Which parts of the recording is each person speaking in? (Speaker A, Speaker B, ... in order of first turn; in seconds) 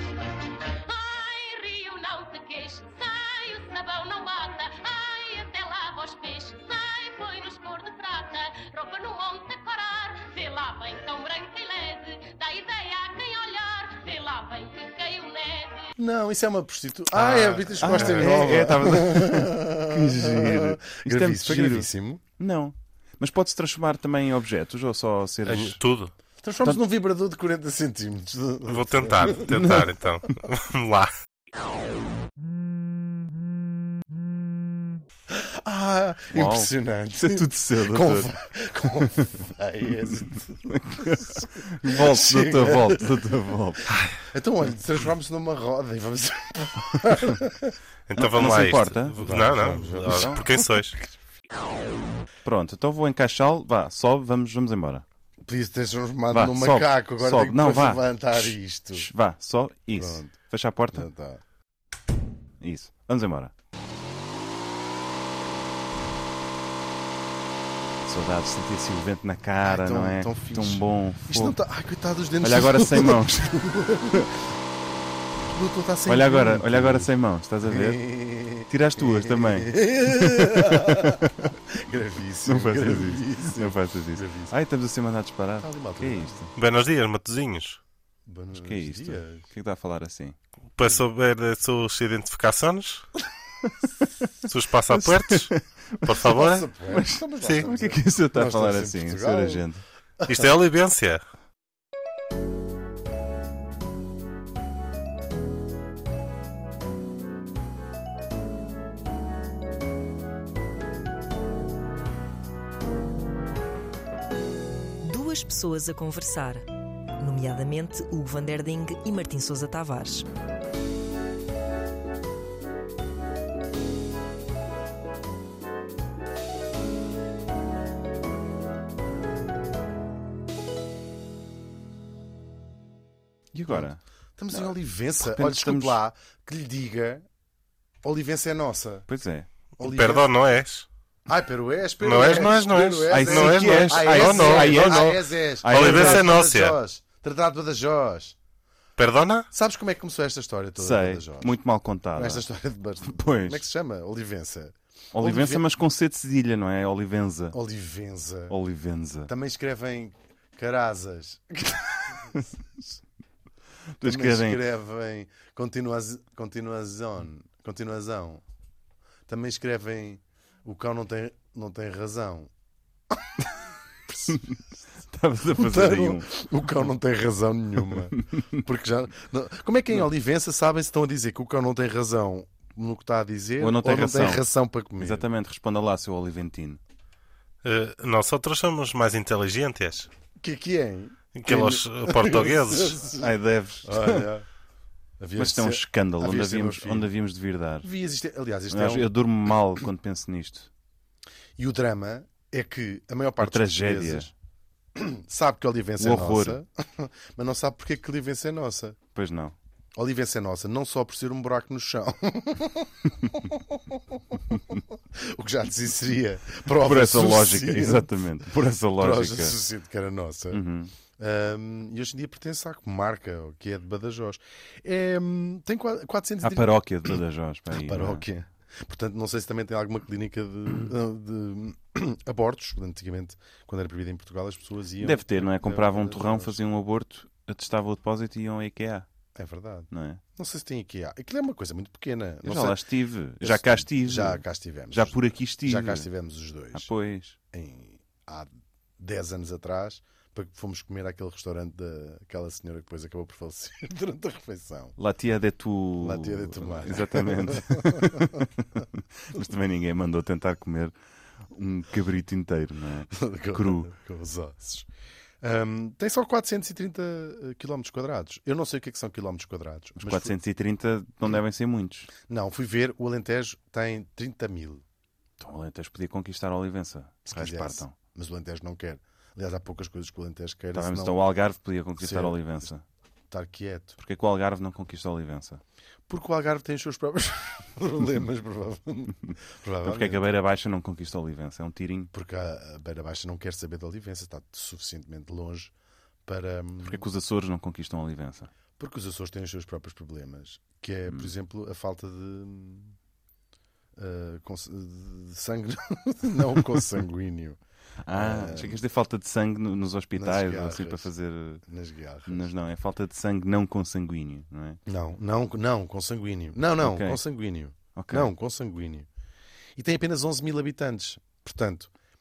Speaker A: 0.8-15.9
Speaker B: 16.0-22.2, 26.4-29.5, 35.3-43.2, 44.0-47.8, 48.4-50.6, 55.5-59.1, 59.9-60.3, 60.9-61.4, 69.6-74.4, 75.4-77.1, 77.6-84.5, 85.6-86.5, 88.2-89.5, 96.2-99.6, 133.7-137.2, 138.0-139.1, 139.8-140.3, 141.3-148.3, 149.5-151.6, 152.1-155.6, 157.5-158.6, 159.3-162.4, 164.0-168.4, 169.3-172.5, 174.1-174.6, 175.5-185.3, 190.4-193.3, 193.8-194.5, 195.2-197.1, 197.8-199.1, 201.6-204.3, 204.9-209.0, 209.9-218.2, 219.0-220.6, 221.2-227.2, 227.7-236.6, 239.3-242.8, 243.4-246.9, 247.5-254.9, 256.0-258.5, 263.1-264.9, 265.4-270.4, 272.3-274.8, 277.3-281.2, 282.0-282.6, 283.3-284.0, 286.1-290.2, 292.1-295.7, 296.2-297.0, 298.8-302.9, 303.9-307.6, 308.1-308.8, 310.1-311.1, 311.6-312.5, 314.9-319.1, 319.8-321.9
Speaker C: 17.1-25.8, 29.5-29.9, 36.3-38.3, 39.0-39.2, 40.0-43.9, 48.1-50.4, 52.4-55.0, 56.3-61.1, 62.6-63.5, 68.0-71.6, 72.4-74.2, 76.1-81.5, 82.5-86.5, 88.5-90.3, 94.9-99.8, 133.5-136.0, 139.1-139.5, 143.1-146.3, 150.8-152.4, 153.0-153.6, 155.1-157.6, 158.5-159.3, 164.0-164.6, 174.3-176.3, 183.6-184.4, 185.0-186.8, 193.1-194.3, 195.4-197.9, 198.7-200.7, 203.4-204.3, 206.0-206.6, 209.1-209.6, 216.7-219.6, 220.5-220.9, 226.4-228.2, 235.0-239.1, 239.9-240.2, 242.4-246.1, 246.7-247.4, 255.0-260.9, 261.4-263.9, 270.0-272.1, 275.4-277.9, 280.7-282.8, 284.0-285.6, 289.8-292.1, 296.8-298.5, 308.0-311.6, 312.3-314.8, 316.8-317.2, 317.9-318.3
Speaker D: 17.8-18.5, 25.4-26.1, 28.7-31.1, 48.1-51.0, 86.5-87.8, 90.8-93.1, 94.5-95.5, 96.0-96.7, 97.4-97.7, 100.3-101.2, 139.8-140.8, 142.0-146.8, 149.0-149.5, 187.6-190.1, 191.3-193.0
Speaker E: 115.0-116.7, 117.2-120.2